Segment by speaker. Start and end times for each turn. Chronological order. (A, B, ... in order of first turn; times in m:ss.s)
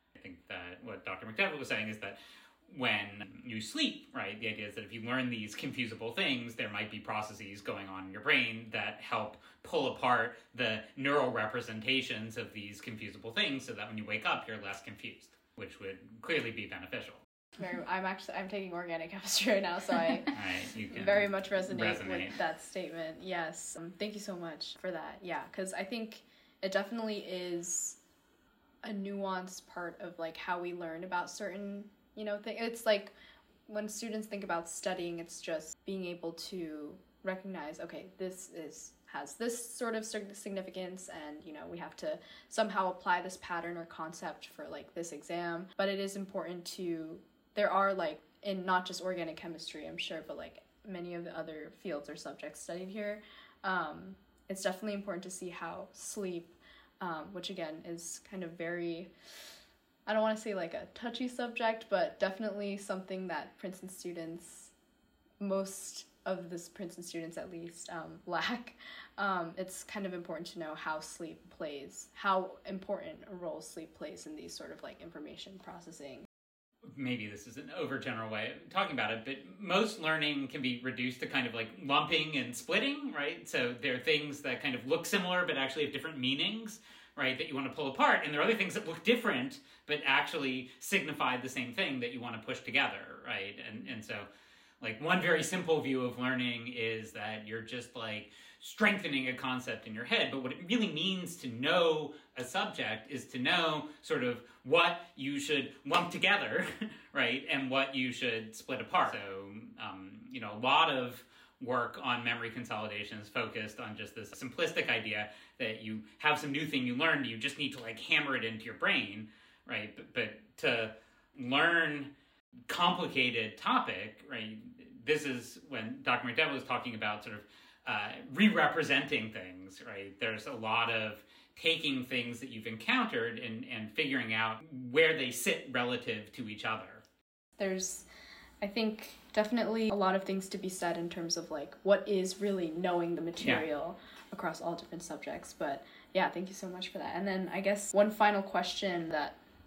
0:00.2-0:17.2 A
0:17.6-0:20.3 B
0:20.3-0:22.4 A
0:20.9-0:28.0 B
0:28.8-0:33.1 B
0:33.7-0:59.1 B
1:00.0-1:04.7 B
1:05.4-1:16.2 B
1:16.9-1:34.3 A
1:34.8-2:02.1 A
2:02.7-2:17.0 A
2:17.6-2:18.1 B
2:18.6-2:29.4 B